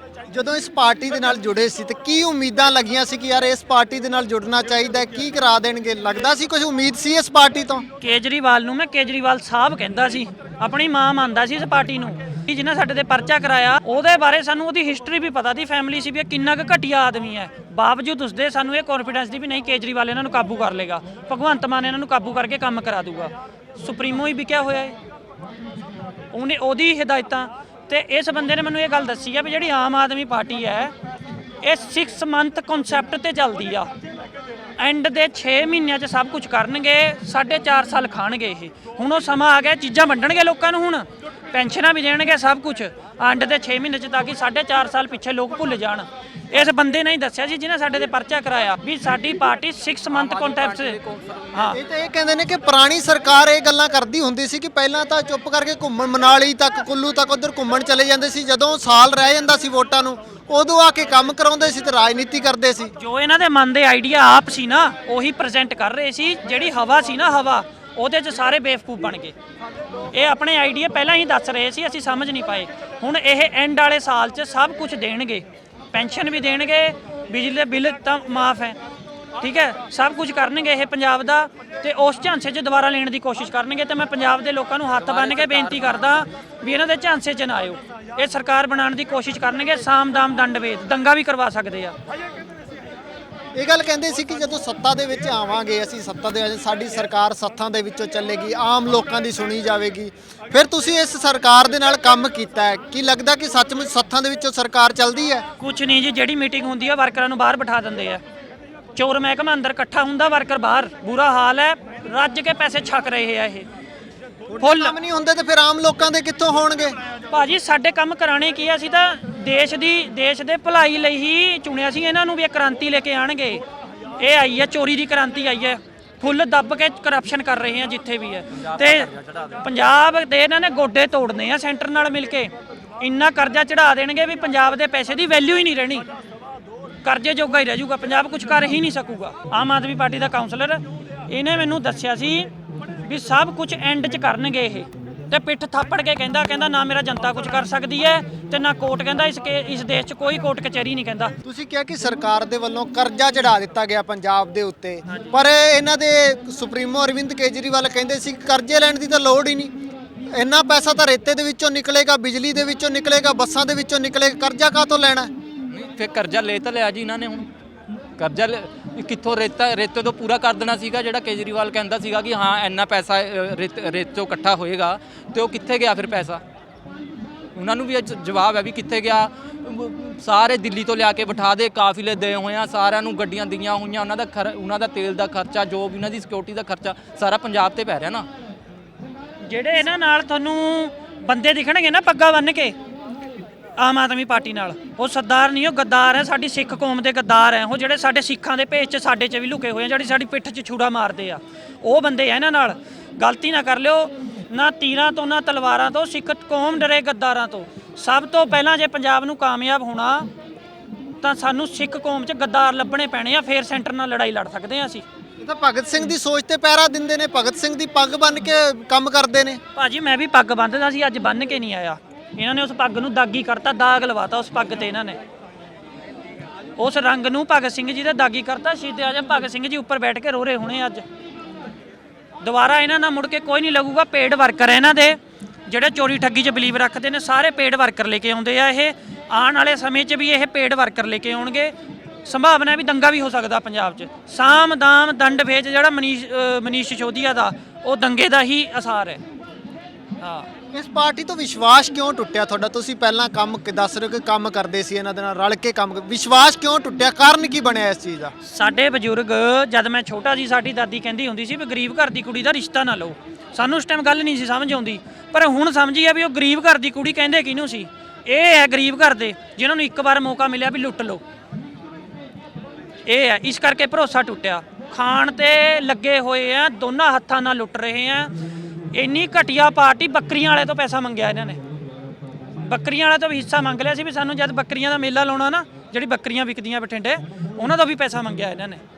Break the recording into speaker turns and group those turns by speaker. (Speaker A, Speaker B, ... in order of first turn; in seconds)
Speaker A: 0.3-7.8, 51.7-62.9, 93.5-105.4, 114.5-117.0, 151.4-159.7, 160.3-165.3, 215.4-219.6, 250.7-258.3
Speaker B: 8.0-24.9, 26.3-30.9, 31.6-33.9, 34.8-51.0, 51.5-51.8, 63.0-69.3, 70.1-78.8, 79.4-91.9, 105.6-108.2, 108.9-113.7, 114.6-114.9, 117.3-123.6, 124.2-136.1, 137.0-142.5, 143.0-151.3, 155.1-155.4, 189.4-192.8, 193.8-210.3, 211.2-215.0, 219.7-225.2, 226.8-231.0, 232.4-241.7, 242.2-249.2, 250.2-250.5, 258.4-271.2, 273.1-278.3, 278.9-281.6, 282.6-288.8
Speaker C: 50.1-51.8, 85.0-86.2, 128.6-129.6, 165.7-167.5, 168.2-176.4, 177.5-188.3